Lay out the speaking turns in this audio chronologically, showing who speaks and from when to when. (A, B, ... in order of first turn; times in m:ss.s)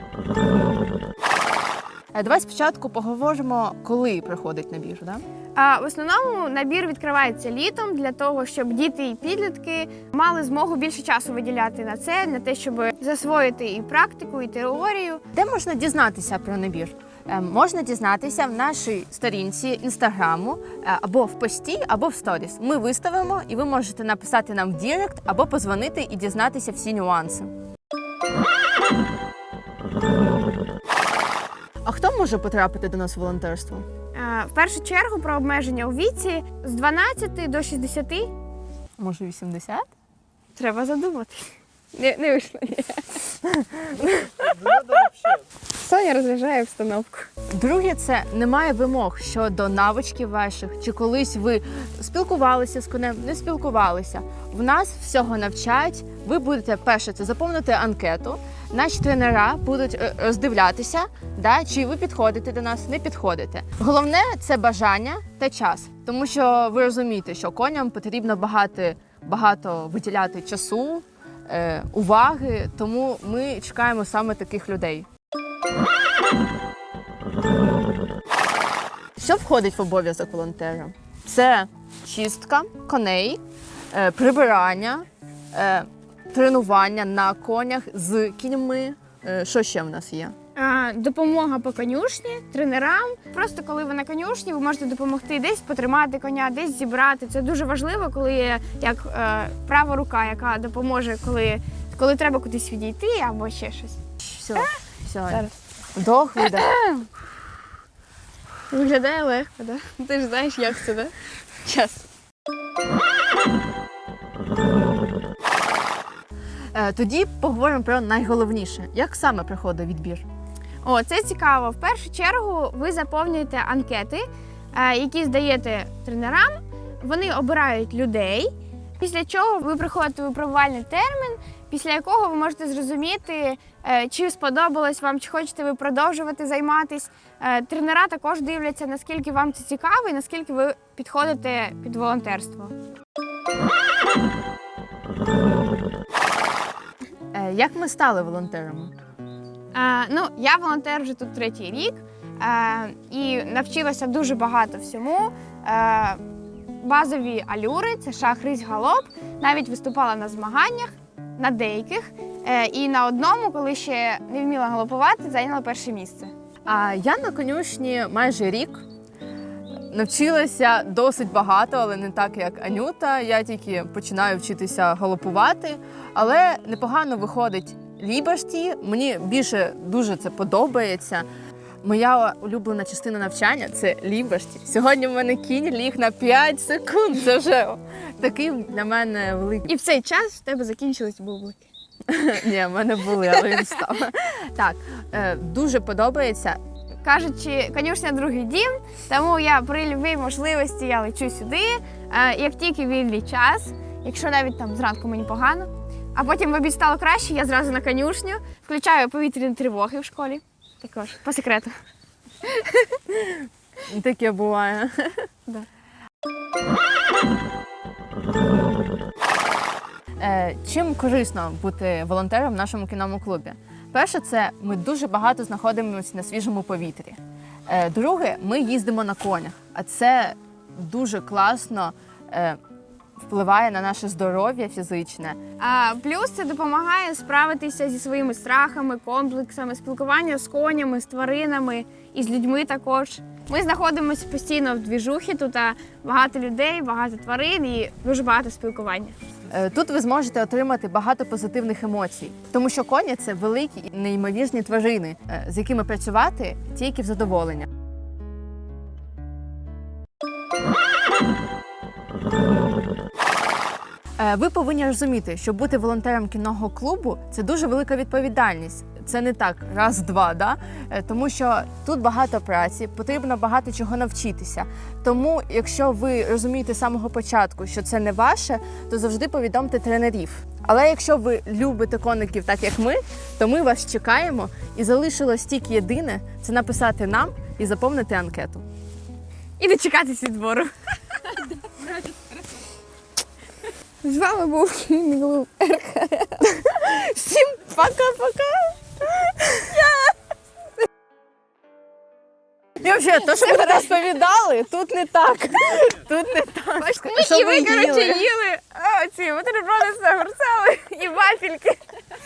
0:02.1-0:05.2 A
0:05.6-0:15.2 B
0:15.3-0:27.5 A
0:31.8-0:33.9 A
0:34.1-0:38.3 B
0:39.0-0:39.8 A
0:40.6-0:45.1 B
0:45.8-0:47.3 B
0:47.5-1:15.1 A
1:19.2-1:23.4 A
1:23.9-1:30.4 A
1:30.6-1:44.0 B
1:44.2-1:45.4 A
1:46.0-1:46.7 A
1:46.4-1:47.1 B
1:48.7-1:51.1 B
1:51.6-1:52.0 B
1:56.7-2:00.2 A
2:00.8-2:22.7 B
2:27.3-2:28.9 A
2:29.7-2:36.2 B
2:36.8-2:46.3 B
2:46.7-2:48.8 A
2:49.9-3:01.2 A
3:01.8-3:09.7 A
3:09.7-3:11.7 B
3:12.1-3:16.6 A
3:17.0-3:31.7 B
3:32.4-3:33.0 B
3:33.9-3:35.3 A
3:40.2-3:52.6 A
3:53.2-3:55.4 A
3:55.6-4:09.2 B
4:09.5-4:17.7 A
4:24.2-4:48.6 A
4:49.6-4:51.5 B
4:54.0-5:00.1 B
5:02.8-5:08.2 A
5:06.8-5:11.8 B